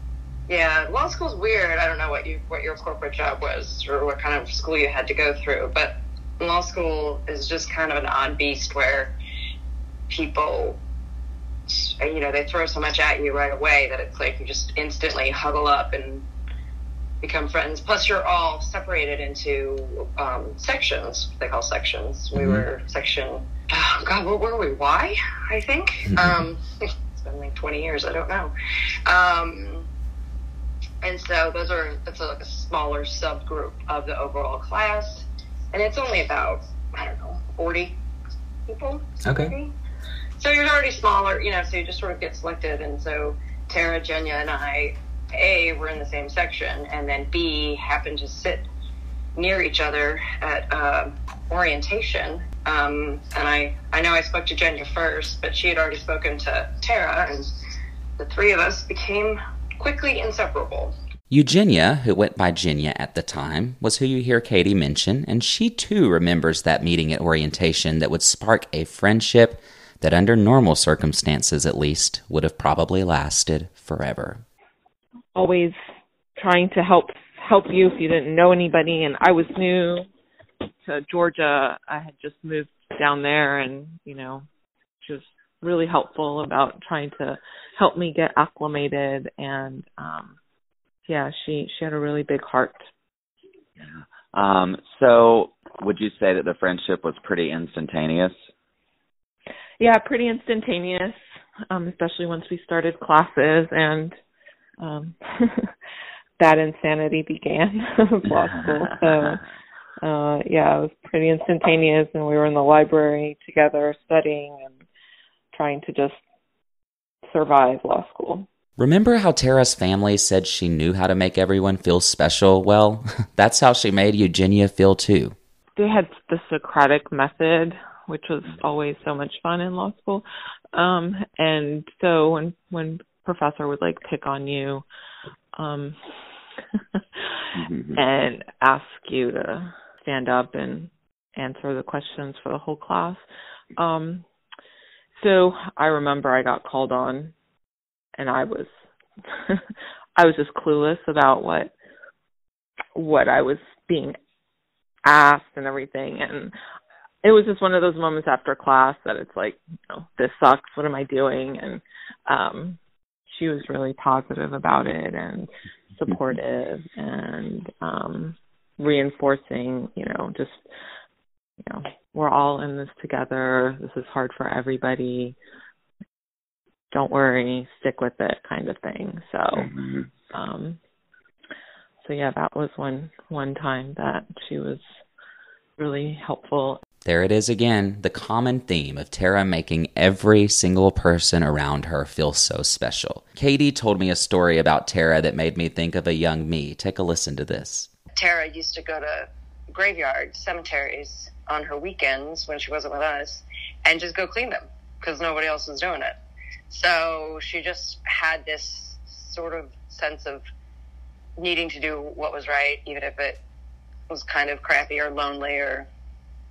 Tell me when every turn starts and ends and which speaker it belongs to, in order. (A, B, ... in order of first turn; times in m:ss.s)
0:00.5-0:09.1 A
0:10.1-0:10.8 A
0:11.7-0:16.2 A
0:17.2-0:26.6 A
0:22.4-0:22.6 B
0:27.1-0:28.5 A
0:29.0-0:29.9 A
0:31.0-0:38.0 A
0:38.7-0:39.7 A
0:39.2-0:39.5 B
0:40.4-0:48.6 A
0:49.3-0:57.5 A
0:58.2-1:00.9 A
1:01.3-1:14.4 B
1:15.3-1:15.8 C
1:16.4-1:20.0 C
1:20.8-1:24.4 C
1:25.0-1:30.4 C
1:31.1-1:32.8 C
1:34.3-1:38.3 D
1:39.8-1:41.2 C
1:41.7-1:44.1 C
1:44.8-1:45.7 C
1:46.4-1:49.4 C
1:48.5-1:49.4 D
1:50.0-1:54.8 C
1:55.5-1:56.2 C
1:57.2-1:58.5 C
1:58.8-2:05.4 B
2:05.8-2:14.8 C
2:15.5-2:16.0 C
2:16.8-2:23.2 C
2:17.6-2:18.0 D
2:23.8-2:24.2 C
2:25.2-2:27.3 C
2:28.2-2:28.7 C
2:30.2-2:31.7 C
2:32.9-2:34.2 C
2:35.0-2:36.5 C
2:37.2-2:42.8 C
2:43.3-2:50.6 C
2:51.6-2:55.4 C
2:56.9-2:59.7 C
2:59.5-3:00.1 D
3:00.3-3:00.8 C
3:02.0-3:04.8 C
3:05.8-3:06.8 C
3:07.0-3:17.9 B
3:18.2-3:26.2 A
3:26.7-3:30.4 A
3:31.4-3:33.4 A
3:34.1-3:35.9 A